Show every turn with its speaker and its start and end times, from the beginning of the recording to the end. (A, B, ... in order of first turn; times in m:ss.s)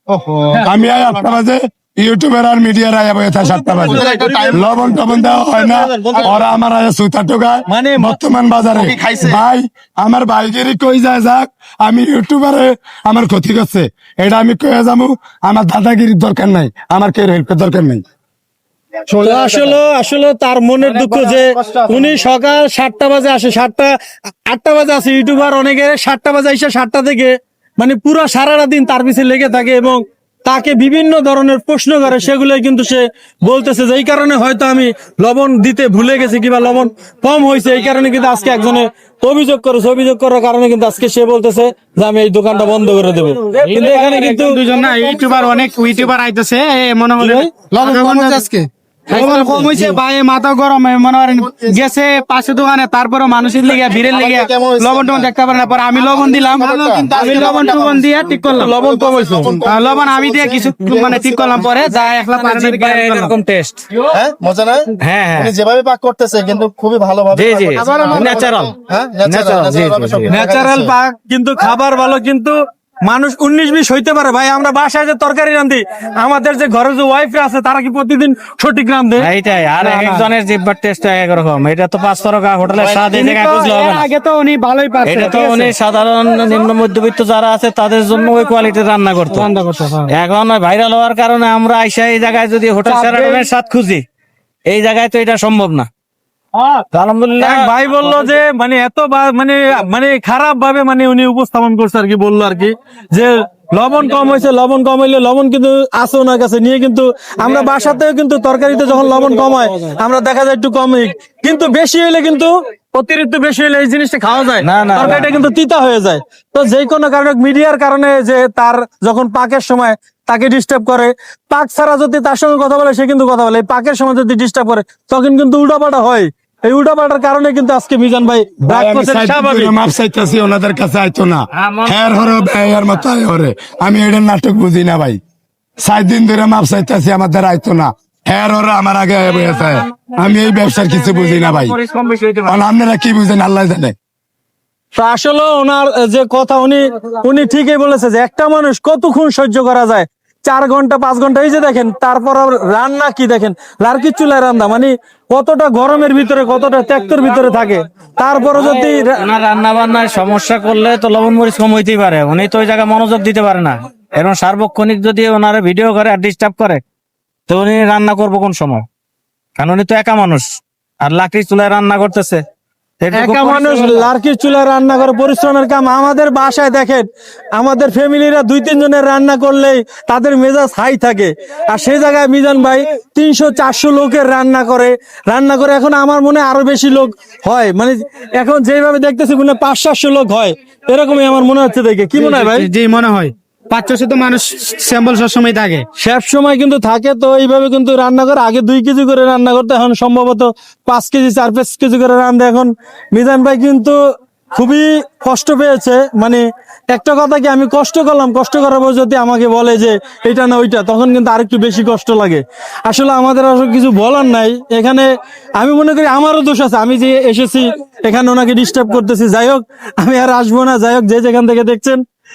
0:00.1-0:00.6 A
0:00.6-0:18.0 B
0:03.4-0:06.5 C
0:03.8-0:05.0 A
0:06.1-0:06.4 A
0:07.7-0:08.2 C
0:08.7-0:09.4 A
0:19.1-0:19.8 A
0:19.2-0:24.0 C
0:21.3-0:22.1 A
0:24.5-0:44.6 C
0:43.6-0:44.3 D
0:44.3-0:58.7 E
0:47.2-0:47.5 C
0:47.8-0:48.5 A
0:49.1-0:50.0 A
0:51.4-0:51.8 A
0:53.6-0:55.3 A
0:56.0-1:01.7 A
0:57.2-0:57.6 C
0:58.6-0:59.6 C
0:59.6-1:03.4 E
1:02.4-1:03.9 D
1:04.1-1:10.9 A
1:05.0-1:05.5 D
1:07.3-1:10.3 D
1:10.3-1:19.3 C
1:19.2-1:24.1 D
1:19.8-1:20.3 C
1:22.8-1:25.7 E
1:25.0-1:29.5 D
1:29.3-1:30.1 E
1:30.1-1:34.0 D
1:32.9-1:33.2 E
1:34.7-1:35.9 D
1:36.9-1:37.7 D
1:37.4-2:09.7 C
1:54.6-1:55.4 D
2:08.6-2:15.2 B
2:11.5-2:12.0 D
2:15.8-2:21.8 B
2:19.3-2:22.6 D
2:22.5-2:24.0 B
2:25.0-2:39.2 C
2:38.6-2:46.8 D
2:47.5-2:48.8 D
2:49.6-2:52.4 D
2:53.0-2:54.1 D
2:53.1-3:12.7 C
3:12.2-3:15.8 E
3:16.0-3:24.0 C
3:24.5-3:42.0 C